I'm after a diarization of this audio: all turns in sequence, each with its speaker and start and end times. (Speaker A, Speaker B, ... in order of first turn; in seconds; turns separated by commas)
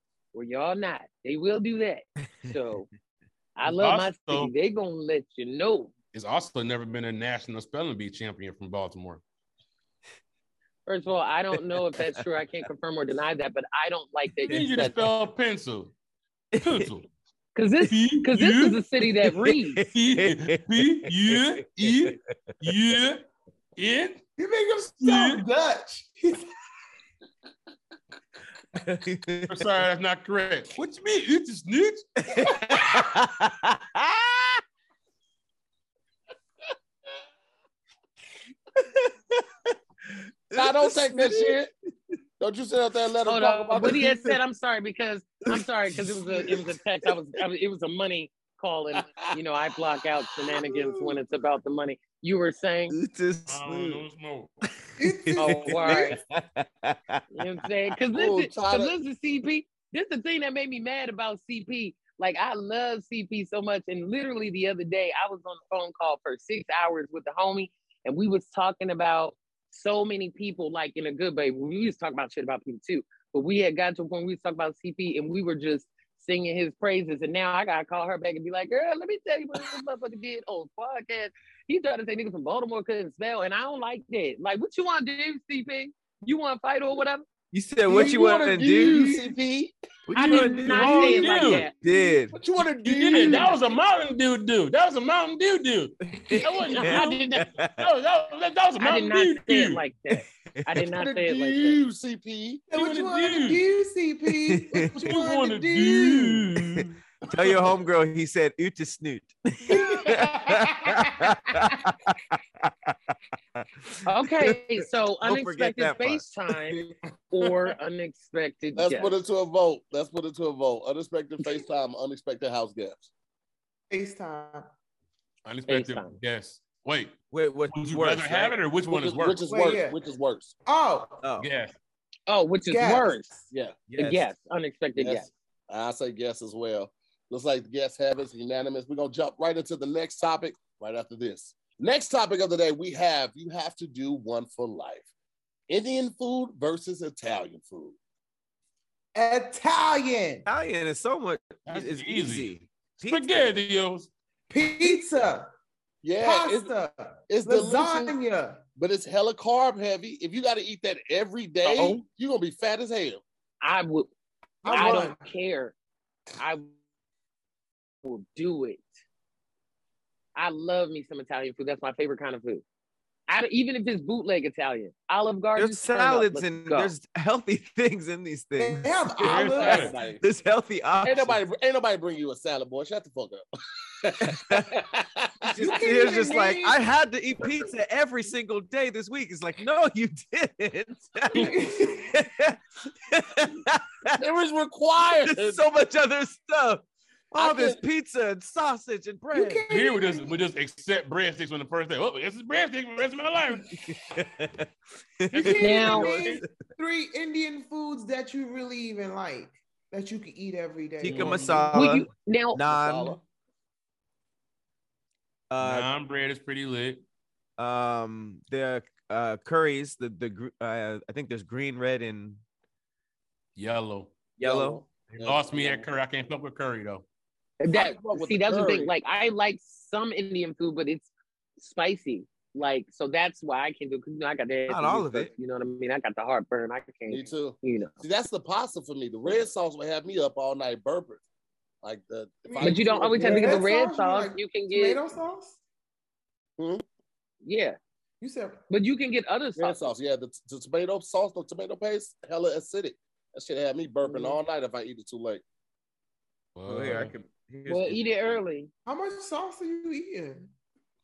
Speaker A: 0.3-2.9, Speaker A: 3.6-5.9, Speaker B: 3.7-4.5, Speaker B: 6.1-9.2, Speaker A: 10.9-15.1, Speaker C: 11.6-12.2, Speaker B: 14.5-15.9, Speaker C: 16.5-16.9, Speaker B: 16.6-17.1, Speaker A: 17.6-19.8, Speaker B: 17.9-18.8, Speaker C: 19.2-22.1, Speaker B: 19.9-23.2, Speaker B: 23.8-24.2, Speaker D: 24.4-26.5, Speaker B: 25.0-25.4, Speaker C: 28.8-29.6, Speaker B: 29.5-32.1, Speaker C: 32.2-34.6, Speaker C: 38.8-39.5, Speaker C: 40.5-41.6, Speaker E: 40.5-41.7, Speaker E: 42.4-44.2, Speaker A: 43.3-53.0, Speaker C: 46.0-46.5, Speaker C: 52.9-54.0, Speaker B: 53.5-54.5, Speaker C: 54.9-57.2, Speaker D: 55.0-55.8, Speaker A: 55.4-56.2, Speaker A: 57.3-87.3, Speaker E: 58.1-59.0, Speaker C: 87.5-89.2, Speaker E: 87.9-89.7, Speaker C: 90.1-92.3, Speaker A: 90.1-91.8, Speaker B: 90.2-91.7, Speaker E: 92.3-93.6, Speaker B: 92.8-97.3, Speaker D: 93.2-93.5, Speaker C: 96.1-97.9, Speaker A: 96.6-97.5, Speaker B: 97.8-99.8, Speaker A: 98.8-101.8, Speaker C: 100.6-100.8, Speaker E: 100.9-102.6, Speaker B: 102.7-103.6, Speaker D: 102.7-106.5, Speaker C: 104.5-105.0, Speaker B: 104.9-107.0, Speaker C: 106.8-112.9, Speaker D: 109.7-110.2, Speaker C: 113.6-116.9, Speaker A: 114.1-119.2, Speaker E: 118.8-123.1, Speaker D: 123.9-124.7, Speaker B: 125.5-127.2, Speaker A: 125.7-126.2, Speaker C: 127.3-128.6, Speaker B: 127.7-129.4, Speaker E: 128.9-130.5, Speaker D: 129.4-130.0, Speaker D: 130.7-131.2, Speaker C: 131.2-131.5, Speaker B: 131.4-131.7, Speaker A: 132.3-133.3, Speaker D: 132.7-133.5, Speaker E: 133.5-133.8, Speaker C: 133.9-134.3, Speaker A: 134.0-135.3, Speaker E: 135.0-145.1, Speaker E: 145.7-148.0, Speaker D: 149.2-150.5, Speaker C: 150.5-153.5, Speaker B: 151.7-154.1, Speaker D: 154.5-155.5, Speaker E: 156.0-156.7, Speaker D: 156.2-158.6, Speaker E: 157.3-158.2, Speaker E: 158.8-163.2, Speaker A: 161.7-162.0, Speaker B: 161.7-162.0, Speaker A: 163.6-164.1, Speaker D: 164.6-165.2, Speaker A: 164.7-165.8, Speaker A: 166.4-166.7, Speaker A: 168.0-168.9, Speaker A: 170.3-172.6, Speaker A: 173.3-176.9, Speaker C: 175.6-179.1, Speaker D: 178.6-180.0, Speaker B: 179.2-180.0, Speaker E: 179.3-180.2, Speaker C: 180.0-181.4, Speaker E: 181.0-183.4, Speaker E: 184.0-185.8, Speaker C: 184.3-184.7, Speaker C: 185.5-194.2, Speaker D: 185.6-186.8, Speaker D: 191.3-192.1, Speaker E: 194.2-195.6, Speaker C: 195.2-199.7, Speaker E: 197.4-197.8, Speaker D: 199.3-200.4, Speaker B: 199.7-203.7, Speaker C: 203.9-204.7, Speaker C: 205.2-206.5, Speaker B: 205.3-206.4, Speaker D: 205.4-211.8, Speaker A: 205.6-206.1, Speaker C: 211.0-213.2, Speaker B: 211.1-211.7, Speaker A: 211.7-212.6, Speaker E: 212.6-213.2, Speaker C: 215.5-215.9, Speaker B: 215.6-217.0, Speaker C: 217.6-222.4, Speaker B: 223.6-224.4, Speaker C: 224.4-224.9, Speaker E: 224.4-225.9, Speaker B: 225.1-227.1, Speaker A: 227.6-238.0, Speaker E: 227.7-228.9, Speaker C: 234.7-235.3, Speaker E: 237.1-241.2, Speaker E: 241.8-243.7, Speaker D: 242.5-245.6, Speaker A: 242.6-245.0, Speaker E: 246.6-246.8, Speaker A: 247.4-247.8, Speaker D: 248.2-248.6, Speaker A: 248.7-249.9, Speaker E: 249.6-255.4, Speaker D: 254.1-254.4, Speaker B: 256.6-257.1, Speaker C: 256.7-258.4, Speaker A: 257.7-258.7, Speaker D: 258.9-260.5